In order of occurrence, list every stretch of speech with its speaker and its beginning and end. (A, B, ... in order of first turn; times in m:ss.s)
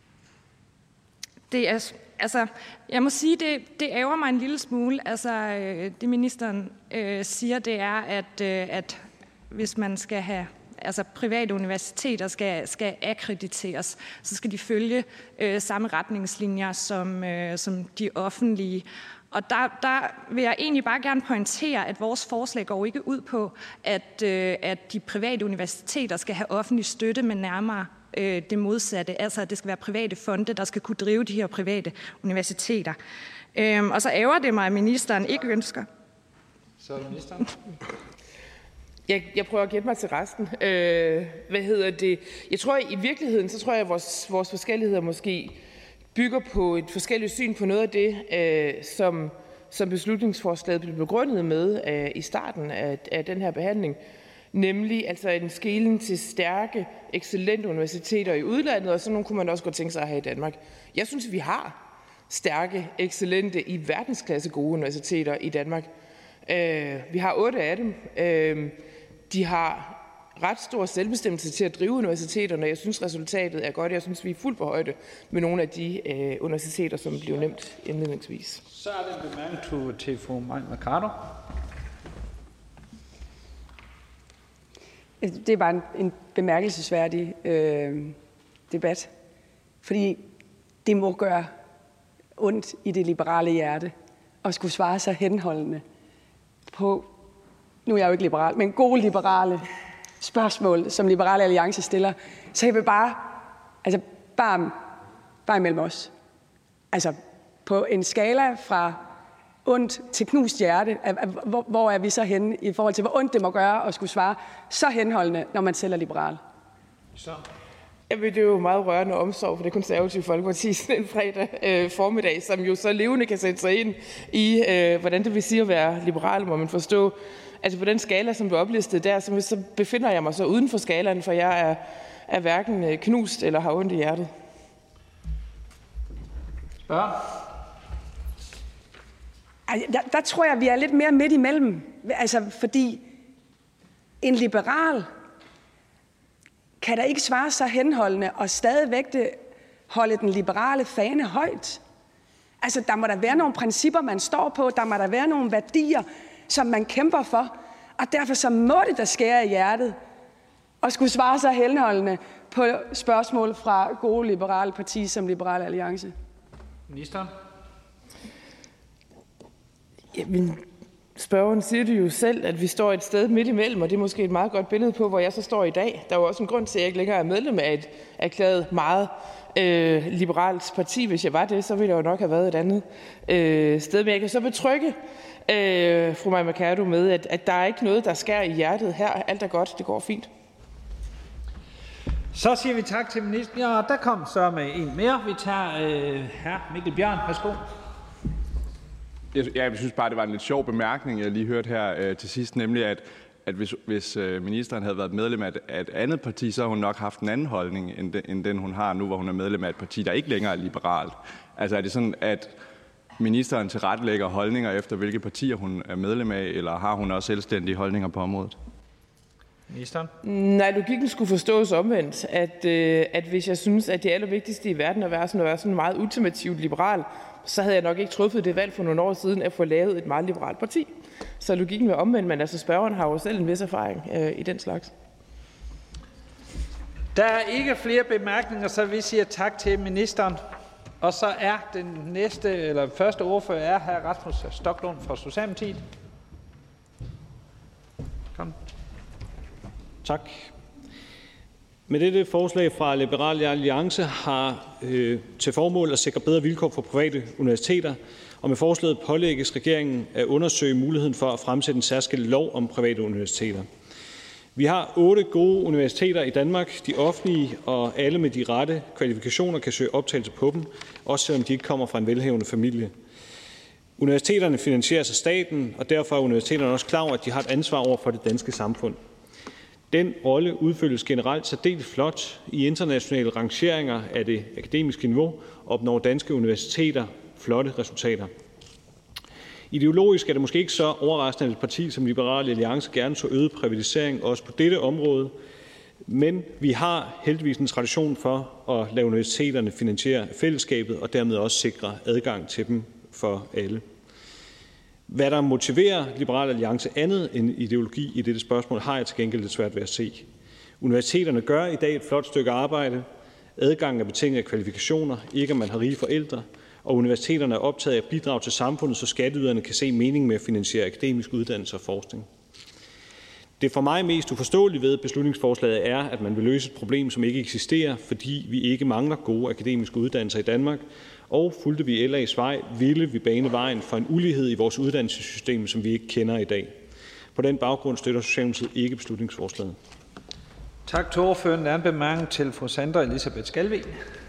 0:01.5-0:33.0 A
0:33.5-0:35.9 A
0:36.8-0:37.5 B
0:39.1-0:45.6 C
0:46.1-0:54.0 C
0:54.5-1:01.8 C
1:02.3-1:05.9 C
1:06.4-1:08.8 C
1:09.3-1:18.6 C
1:18.7-1:21.2 B
1:25.2-1:28.2 D
1:28.7-1:29.1 D
1:29.8-1:30.2 D
1:30.8-1:31.5 D
1:32.4-1:35.8 D
1:36.7-1:37.1 D
1:37.8-1:39.6 D
1:40.2-1:44.8 D
1:45.4-1:46.1 D
1:46.9-1:49.0 D
1:49.6-1:56.4 D
1:58.1-2:14.3 C
2:16.9-2:17.3 B
2:19.7-2:23.0 D
2:24.2-2:25.1 D
2:26.8-2:31.8 D
2:32.6-2:40.0 D
2:40.8-2:46.1 D
2:46.9-2:47.3 B
2:50.1-2:50.6 C
2:51.2-3:10.3 C
3:12.3-3:17.6 B
3:19.3-3:32.5 E
3:33.2-3:38.5 E
3:39.7-3:40.1 B
3:40.2-3:54.9 C
3:57.1-4:00.4 B
4:01.0-4:05.8 B
4:10.0-4:10.5 F
4:11.9-4:23.7 F
4:24.6-4:32.9 F
4:34.0-4:39.0 F
4:39.9-4:48.3 F
4:49.7-4:55.3 F
4:56.0-5:03.8 F
5:05.1-5:10.2 F
5:10.8-5:13.0 F
5:13.6-5:22.3 F
5:23.6-5:36.7 F
5:37.3-5:39.8 F
5:40.9-5:43.9 B